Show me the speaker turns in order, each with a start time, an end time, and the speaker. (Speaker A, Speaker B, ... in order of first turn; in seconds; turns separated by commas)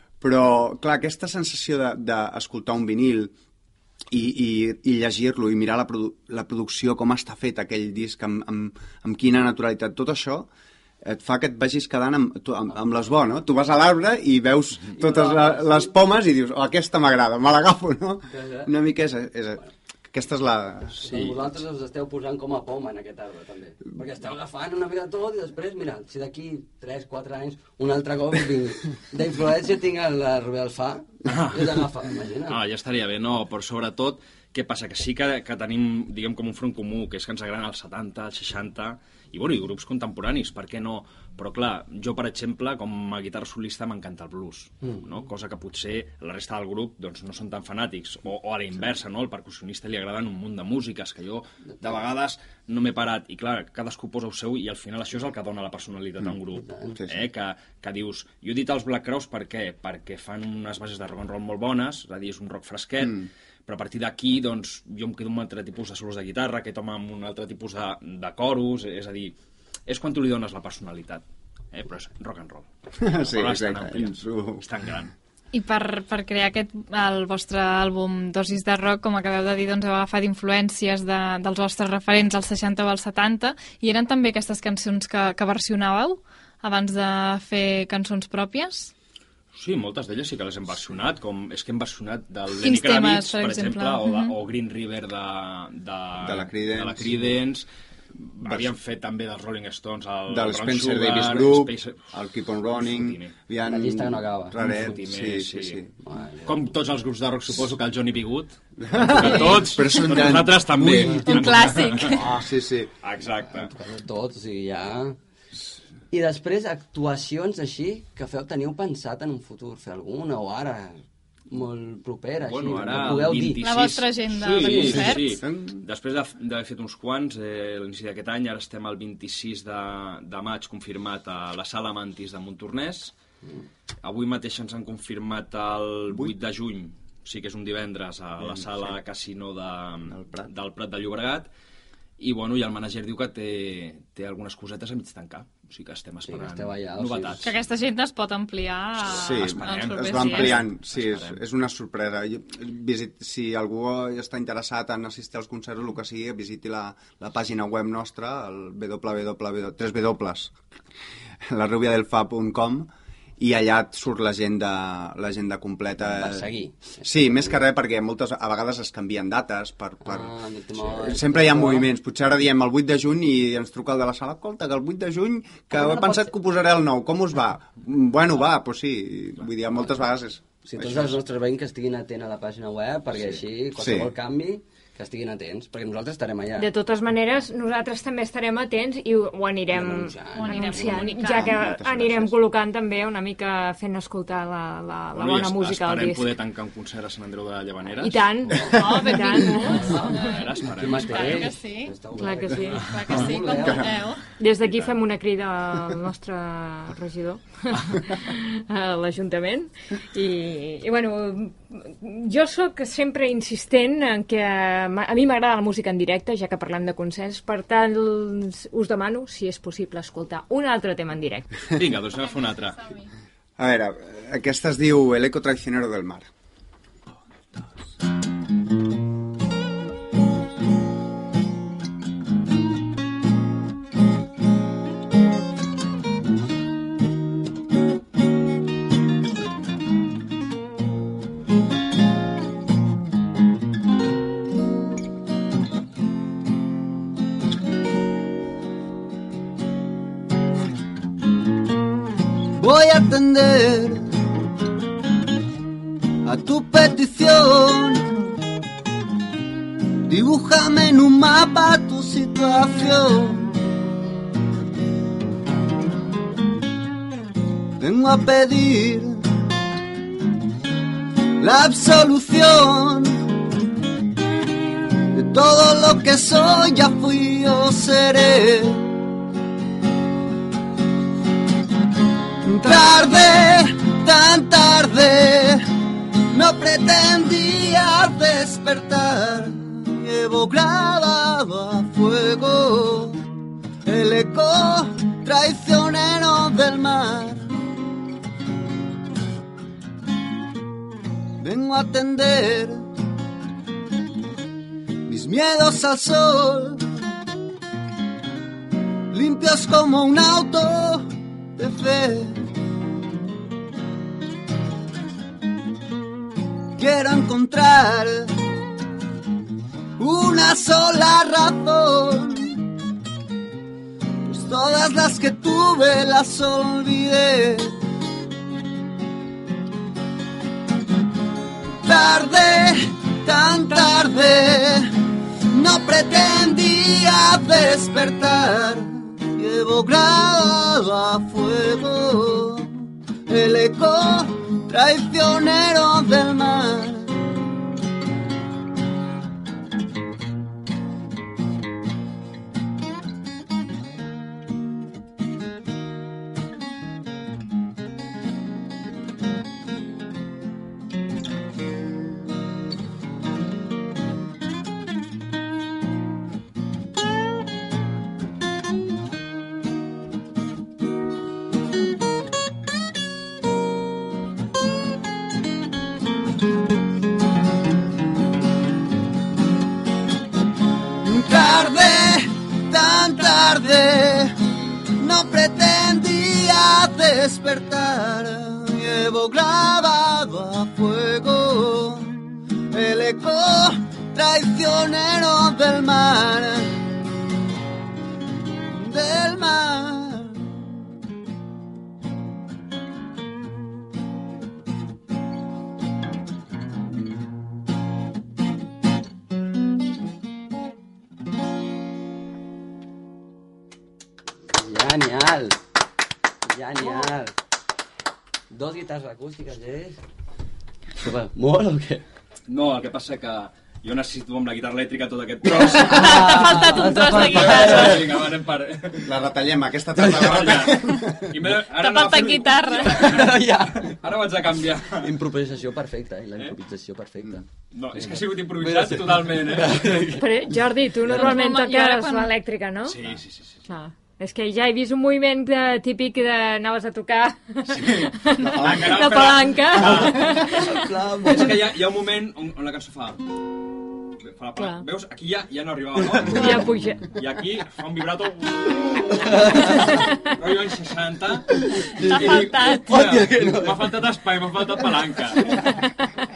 Speaker A: 0.2-3.3, Speaker A: 4.1-10.5, Speaker A: 11.0-21.5, Speaker B: 14.9-15.9, Speaker B: 18.3-18.7, Speaker B: 20.9-32.6, Speaker C: 31.3-31.9, Speaker C: 32.5-69.4, Speaker B: 56.7-57.0, Speaker C: 69.9-75.1, Speaker A: 73.0-74.6, Speaker D: 75.5-88.9, Speaker C: 89.5-102.1, Speaker D: 92.6-94.3, Speaker A: 96.2-97.2, Speaker A: 98.4-98.7, Speaker A: 100.3-105.9, Speaker C: 102.9-103.3, Speaker B: 103.7-104.6, Speaker C: 104.6-105.8, Speaker B: 106.0-106.6, Speaker C: 106.5-112.2, Speaker A: 108.8-111.4, Speaker D: 109.2-109.6, Speaker D: 111.2-112.3, Speaker A: 112.1-112.9, Speaker C: 113.0-113.7, Speaker B: 113.5-115.2, Speaker B: 116.1-123.6, Speaker C: 122.5-133.1, Speaker D: 123.6-125.4, Speaker A: 124.7-125.8, Speaker C: 134.0-141.5, Speaker A: 140.1-140.5, Speaker C: 142.2-147.6, Speaker B: 146.3-147.5, Speaker D: 147.4-150.7, Speaker C: 149.0-151.4, Speaker A: 149.1-160.6, Speaker A: 161.5-166.5, Speaker B: 166.0-167.5, Speaker A: 167.0-181.2, Speaker B: 170.1-171.9, Speaker B: 180.6-186.7, Speaker A: 183.8-184.1, Speaker E: 186.6-196.3, Speaker B: 189.7-191.4, Speaker D: 190.3-191.6, Speaker A: 191.4-192.4, Speaker C: 195.1-198.3, Speaker E: 198.0-200.2, Speaker B: 198.5-198.8, Speaker D: 198.7-201.9, Speaker B: 199.7-203.9, Speaker C: 200.1-201.5, Speaker E: 202.1-203.0, Speaker D: 202.7-204.3, Speaker C: 202.9-203.1, Speaker E: 204.4-221.5, Speaker C: 204.6-204.9, Speaker C: 221.7-222.9, Speaker A: 223.6-226.3, Speaker F: 271.4-272.9, Speaker F: 275.3-278.3, Speaker F: 282.6-283.6, Speaker F: 284.2-285.4, Speaker F: 286.3-293.1, Speaker F: 293.9-297.4, Speaker A: 309.8-310.2, Speaker F: 320.0-321.9, Speaker F: 324.3-327.6, Speaker F: 331.9-334.6, Speaker F: 335.5-338.9, Speaker F: 339.4-342.6, Speaker F: 343.3-347.1, Speaker F: 381.1-382.2, Speaker F: 382.7-384.3, Speaker F: 385.0-392.1, Speaker F: 392.7-396.7, Speaker F: 398.7-400.3, Speaker B: 414.5-415.6, Speaker B: 416.5-417.3, Speaker B: 418.5-420.0, Speaker B: 421.0-422.1, Speaker C: 422.5-429.2, Speaker B: 425.4-428.1, Speaker D: 425.8-428.1, Speaker A: 429.1-431.2, Speaker C: 430.0-435.1, Speaker D: 431.7-433.1, Speaker B: 432.8-434.0, Speaker B: 435.0-437.4, Speaker C: 437.7-439.9, Speaker B: 437.9-440.3, Speaker E: 440.1-443.0, Speaker B: 441.1-441.4, Speaker D: 441.1-442.4, Speaker C: 442.9-443.6, Speaker E: 443.7-450.8, Speaker C: 447.7-450.7, Speaker A: 448.4-449.0, Speaker B: 449.8-451.6, Speaker C: 451.2-453.2, Speaker C: 454.4-465.6, Speaker E: 456.3-457.1, Speaker B: 459.2-459.9, Speaker B: 461.8-463.9, Speaker E: 462.1-462.8, Speaker D: 462.1-462.9